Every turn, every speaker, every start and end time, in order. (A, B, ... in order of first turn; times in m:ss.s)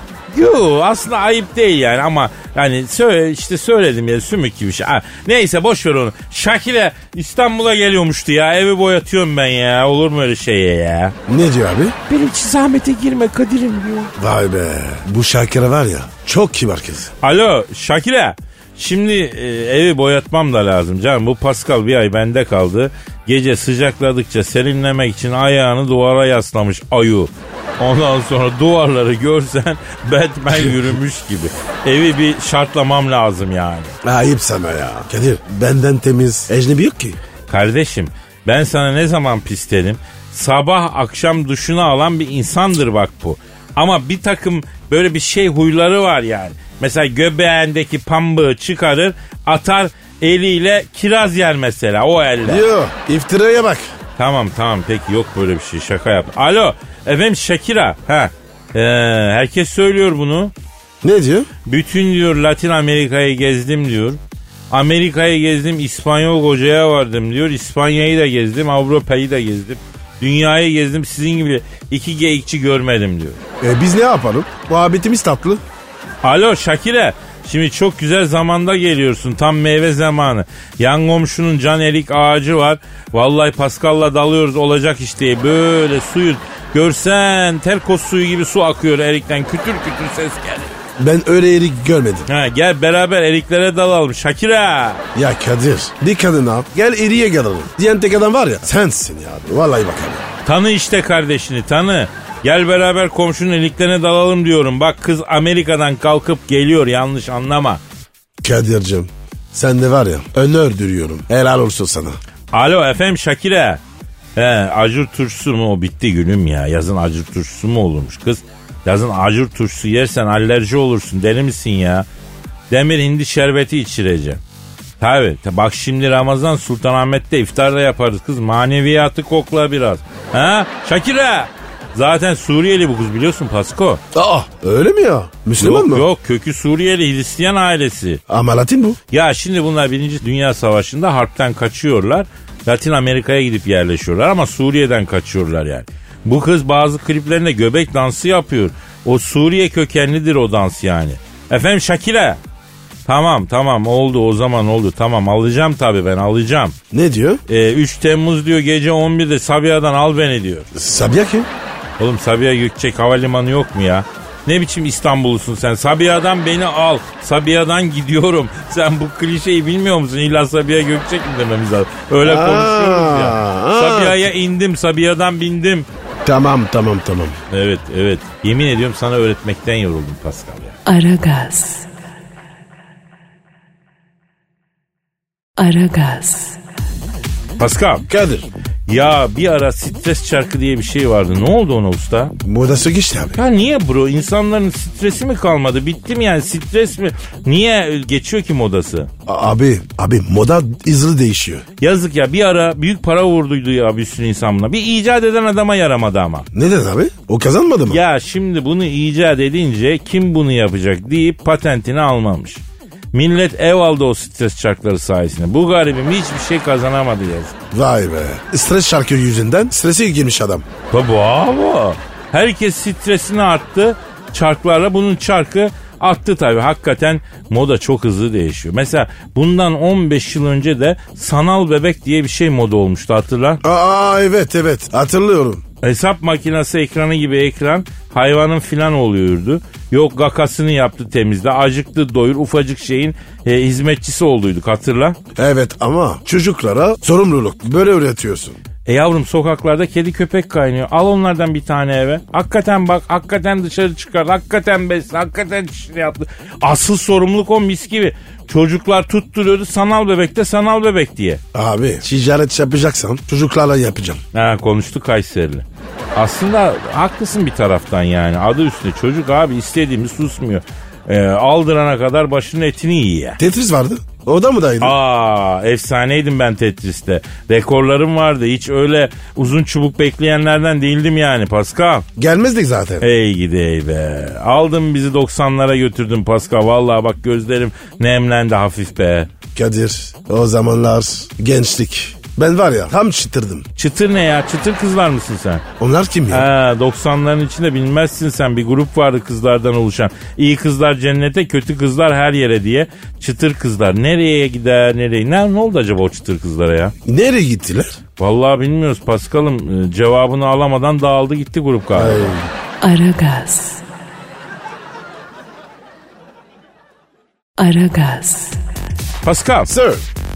0:00.3-0:11.1 A
0:11.3-0:12.0 B
0:12.1-0:14.1 A
0:14.2-0:17.1 B
0:17.2-0:33.9 A
0:34.0-0:37.2 B
0:37.5-0:52.6 A
0:52.4-0:53.9 B
0:54.2-1:00.5 A
1:01.0-1:01.5 B
1:01.6-1:04.2 A
1:04.7-1:13.4 A
1:13.6-1:15.6 B
1:16.2-1:30.8 A
1:31.0-1:32.3 B
1:32.3-1:35.0 A
1:35.1-1:40.2 B
1:40.4-1:47.8 A
1:48.4-1:52.2 B
1:52.5-1:53.8 A
1:54.4-2:02.1 A
2:02.7-2:04.4 A
2:05.0-2:14.0 A
2:14.1-2:16.1 B
2:15.6-2:18.2 A
2:18.3-2:19.0 B
2:19.1-2:32.4 A
2:33.0-2:36.8 A
2:36.9-2:37.4 B
2:37.5-2:40.7 A
2:40.7-2:41.5 B
2:42.0-2:55.8 A
2:52.2-2:54.2 B
2:56.2-2:57.4 B
2:57.5-3:00.8 A
3:00.8-3:01.9 C
3:05.6-3:06.6 C
3:07.6-3:08.0 A
3:08.1-3:08.5 B
3:08.9-3:12.3 A
3:12.4-3:13.4 B
3:13.4-3:19.1 A
3:19.2-3:21.6 B
3:21.8-3:26.5 A
3:26.5-3:28.0 B
3:27.9-3:32.6 A
3:33.1-3:37.5 A
3:37.7-3:40.6 B
3:40.9-3:53.6 A
3:53.6-3:55.6 B
3:55.8-4:05.2 A
4:05.4-4:08.6 B
4:08.8-4:21.4 A
4:21.5-4:24.2 B
4:24.3-4:33.4 A
4:33.4-4:35.0 B
4:34.8-4:42.1 A
4:42.2-4:43.1 B
4:43.0-4:49.3 A
4:49.5-4:53.6 B
4:53.8-4:55.6 A
4:55.8-4:56.5 B
4:56.3-5:06.9 A
5:07.0-5:08.0 B
5:08.2-5:12.4 A
5:11.9-5:12.5 B
5:12.8-5:13.8 C
5:17.6-5:18.6 C
5:19.2-5:19.7 A
5:19.7-5:20.0 B